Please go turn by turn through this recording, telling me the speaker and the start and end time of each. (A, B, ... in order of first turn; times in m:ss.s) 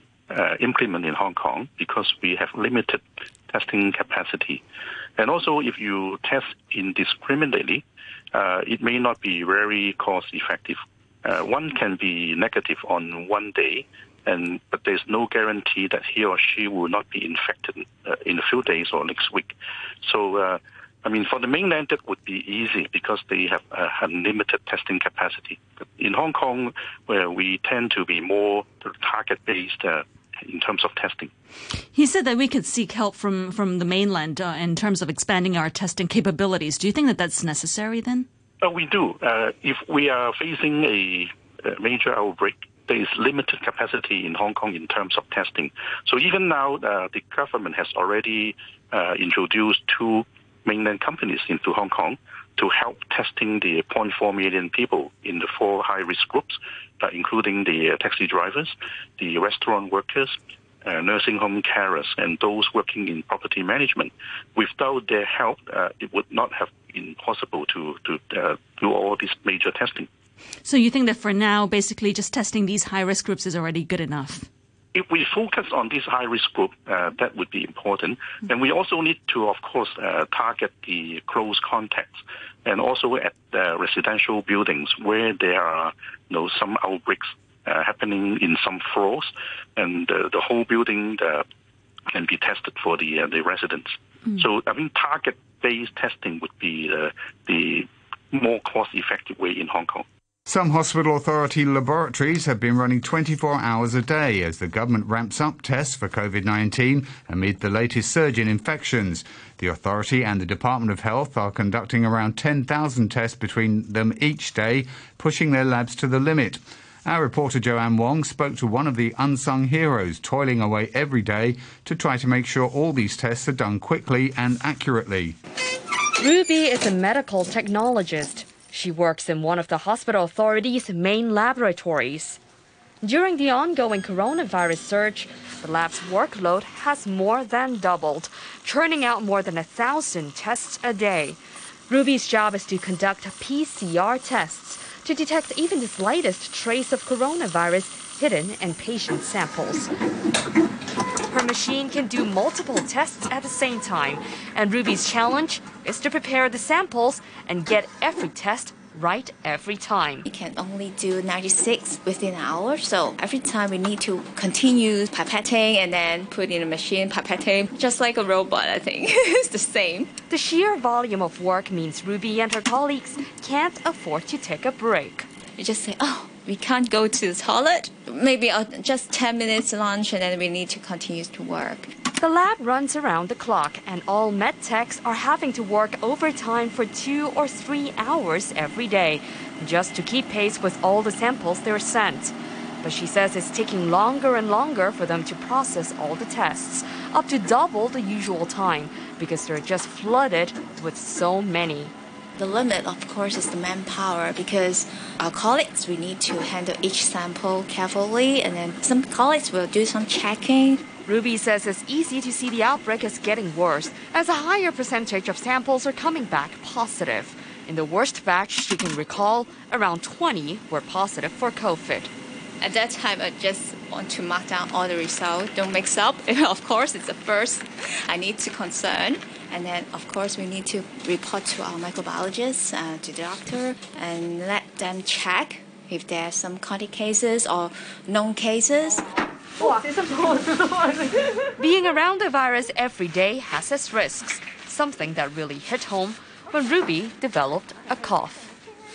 0:00.3-0:04.6 A
0:05.2-0:19.5 A
0:20.0-0:31.3 A
0:31.9-0:38.3 B
0:38.6-1:10.1 A
1:10.6-1:14.5 B
1:14.9-1:31.4 A
1:32.1-1:40.0 A
1:40.5-2:05.4 C
2:06.2-2:12.4 D
2:13.0-2:29.9 D
2:31.3-2:40.3 D
2:40.3-2:50.1 E
2:50.3-2:55.3 D
2:55.6-3:02.0 E
3:02.1-3:21.9 D
3:22.4-3:30.8 E
3:31.0-3:42.1 D
3:42.6-3:59.1 E
4:01.6-4:08.5 D